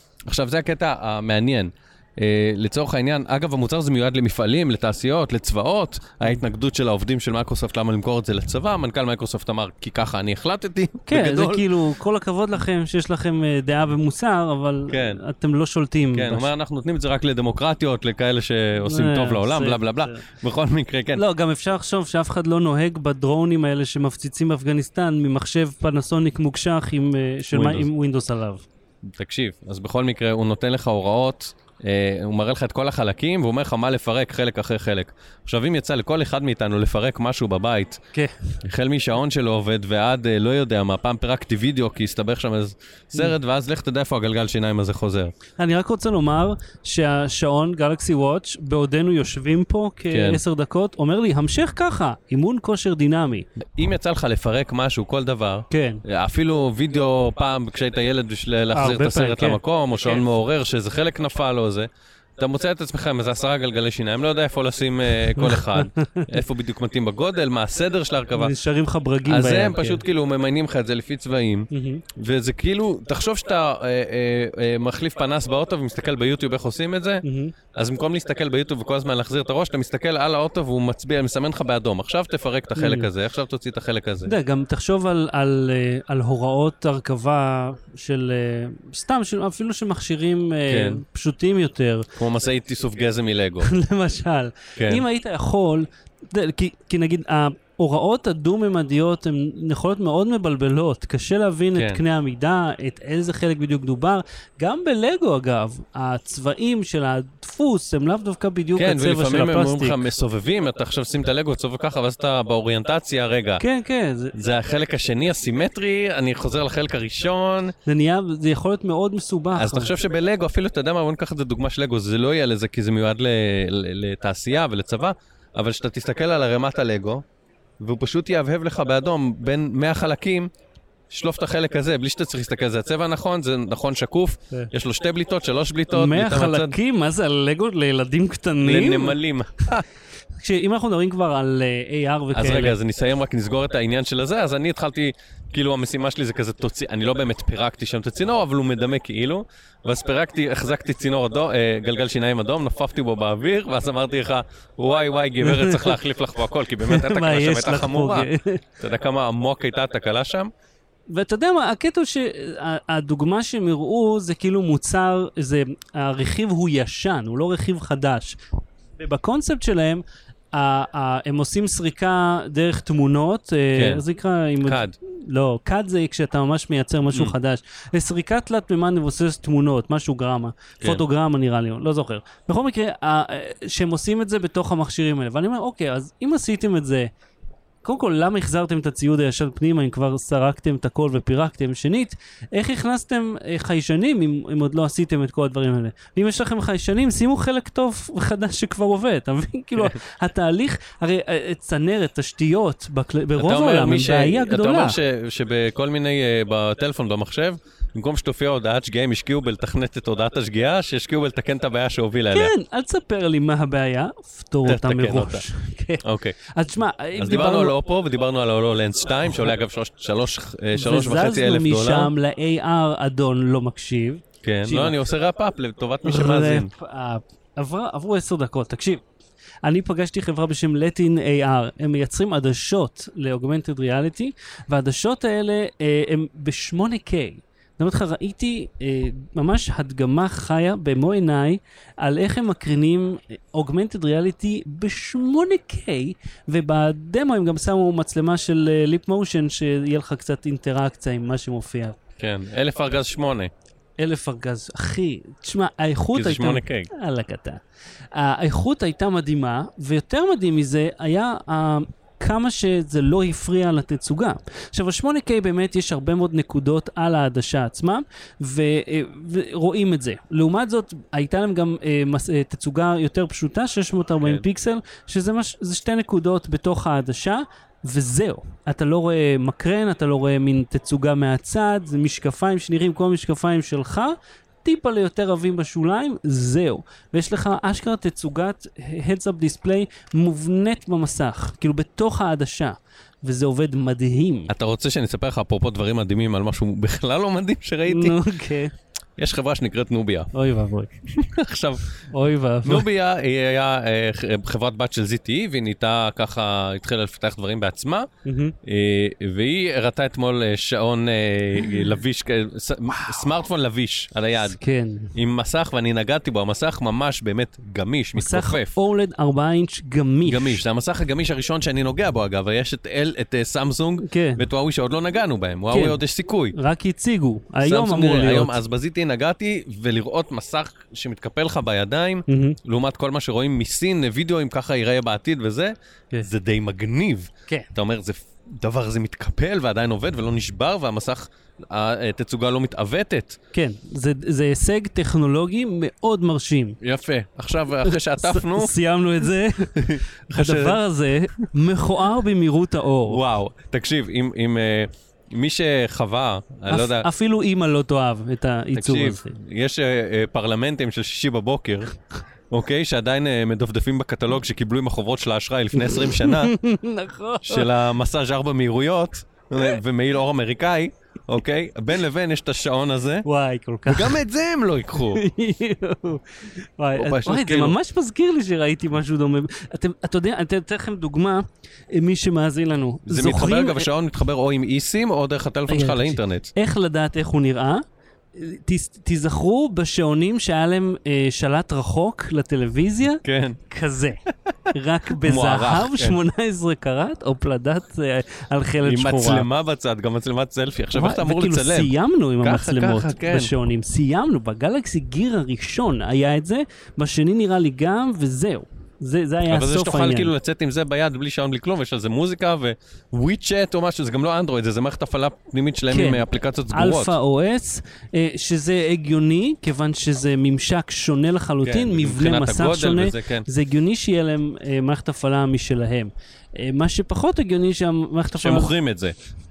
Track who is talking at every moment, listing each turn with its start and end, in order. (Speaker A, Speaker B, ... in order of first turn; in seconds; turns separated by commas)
Speaker A: 0.3-11.7, Speaker B: 11.1-16.5, Speaker A: 14.9-15.2, Speaker A: 16.1-21.2, Speaker B: 18.8-20.2, Speaker B: 21.1-28.6, Speaker A: 27.5-27.9, Speaker A: 29.0-38.0, Speaker B: 38.1-38.5, Speaker A: 38.6-45.3, Speaker B: 45.6-53.5, Speaker A: 50.1-50.4, Speaker A: 53.8-68.5, Speaker B: 55.7-56.0, Speaker B: 58.7-60.2, Speaker B: 65.4-66.3, Speaker B: 68.4-70.0, Speaker A: 69.2-77.2, Speaker B: 71.7-72.0, Speaker B: 77.2-77.5, Speaker A: 77.7-84.3, Speaker B: 82.8-83.1, Speaker B: 84.3-92.1, Speaker A: 90.7-91.0, Speaker A: 92.2-93.7, Speaker B: 93.6-110.0, Speaker A: 94.8-95.0, Speaker A: 101.8-102.0, Speaker A: 108.8-113.6, Speaker B: 113.6-114.4, Speaker A: 114.3-117.8, Speaker B: 117.8-119.9, Speaker A: 119.6-127.2, Speaker A: 127.8-130.5, Speaker A: 131.1-136.8, Speaker B: 135.9-139.2, Speaker A: 138.6-139.8, Speaker B: 140.4-142.8, Speaker A: 142.3-160.5, Speaker B: 155.4-155.9, Speaker B: 156.8-158.6, Speaker B: 161.1-168.4, Speaker B: 169.0-187.1, Speaker A: 173.8-174.0, Speaker A: 174.6-175.0, Speaker B: 187.8-205.0, Speaker A: 203.4-212.5, Speaker B: 212.3-217.8, Speaker A: 214.7-215.4, Speaker A: 216.0-216.4, Speaker A: 217.2-222.1, Speaker B: 220.8-225.0, Speaker A: 224.4-226.7, Speaker B: 226.0-229.0, Speaker B: 229.6-252.0, Speaker A: 252.2-253.5, Speaker B: 254.0-257.6, Speaker A: 256.1-256.9, Speaker B: 258.1-294.5, Speaker A: 294.5-298.2, Speaker B: 297.9-298.7, Speaker A: 299.2-300.3, Speaker B: 300.3-300.9, Speaker A: 301.1-302.0, Speaker B: 302.1-302.9, Speaker A: 302.6-308.1, Speaker B: 308.2-308.6, Speaker A: 308.6-314.6, Speaker B: 314.5-315.1, Speaker A: 315.1-318.8, Speaker B: 318.2-320.6, Speaker A: 320.3-326.6, Speaker B: 324.0-324.4, Speaker B: 325.7-326.0, Speaker B: 326.5-328.6, Speaker A: 327.6-343.4, Speaker B: 332.3-332.6, Speaker B: 343.5-346.8, Speaker A: 346.8-348.8, Speaker B: 347.8-353.2, Speaker A: 349.8-350.8, Speaker A: 353.1-357.1, Speaker B: 356.7-359.4, Speaker A: 358.8-361.9, Speaker A: 362.5-366.6, Speaker B: 365.8-367.7, Speaker A: 367.4-373.3, Speaker B: 373.2-374.2, Speaker A: 373.9-375.2, Speaker B: 375.1-383.9, Speaker A: 376.9-377.8, Speaker A: 383.1-386.5, Speaker B: 385.7-387.8, Speaker B: 388.4-394.2, Speaker A: 393.2-393.6, Speaker B: 394.7-399.5, Speaker A: 395.1-396.2, Speaker A: 398.8-403.5, Speaker B: 400.9-410.3, Speaker A: 409.4-417.2, Speaker B: 415.9-428.7, Speaker A: 421.6-423.5, Speaker A: 428.4-429.1